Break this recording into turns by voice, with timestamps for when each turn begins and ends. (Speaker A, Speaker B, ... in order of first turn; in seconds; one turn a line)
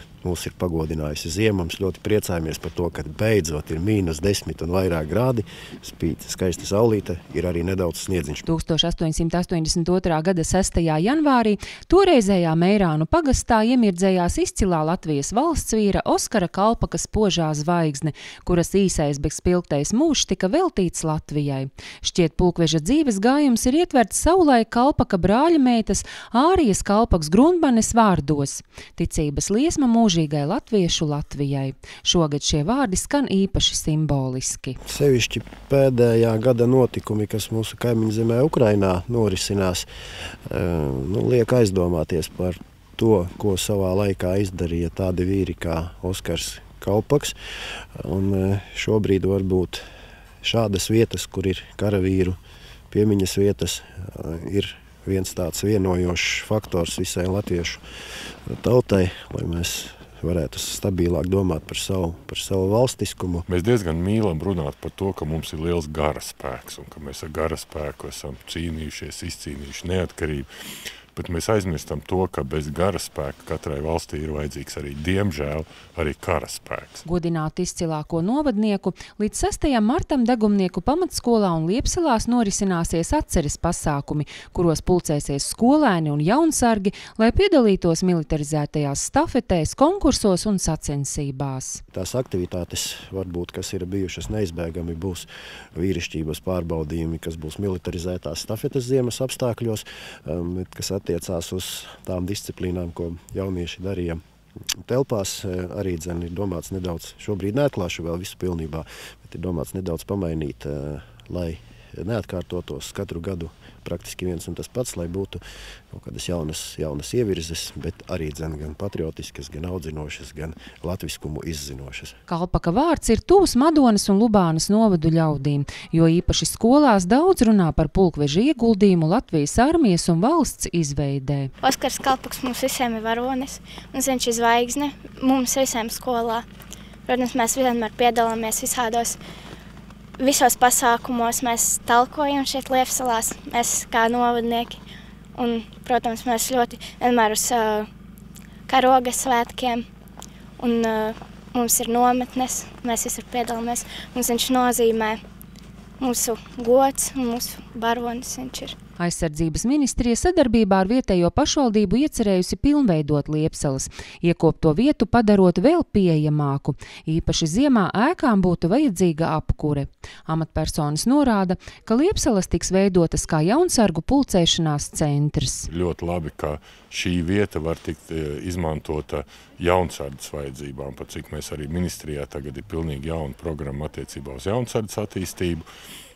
Speaker A: 0.2-8.4
Speaker B: 8.5-34.8
Speaker A: 34.8-39.9
Speaker A: 40.5-47.3
Speaker A: 48.0-49.8
Speaker A: 50.4-52.4
Speaker A: 52.9-57.8
Speaker A: 58.5-63.5
Speaker C: 63.5-70.5
Speaker C: 71.1-77.0
Speaker B: 77.0-91.8
Speaker A: 91.9-104.2
Speaker A: 104.8-122.2
Speaker B: 122.3-131.5
Speaker D: 131.6-136.4
Speaker D: 137.1-139.2
Speaker D: 140.2-144.8
Speaker D: 145.3-147.9
Speaker D: 148.7-149.8
Speaker D: 150.6-155.2
Speaker D: 156.0-158.7
Speaker B: 159.0-175.7
Speaker C: 175.7-185.6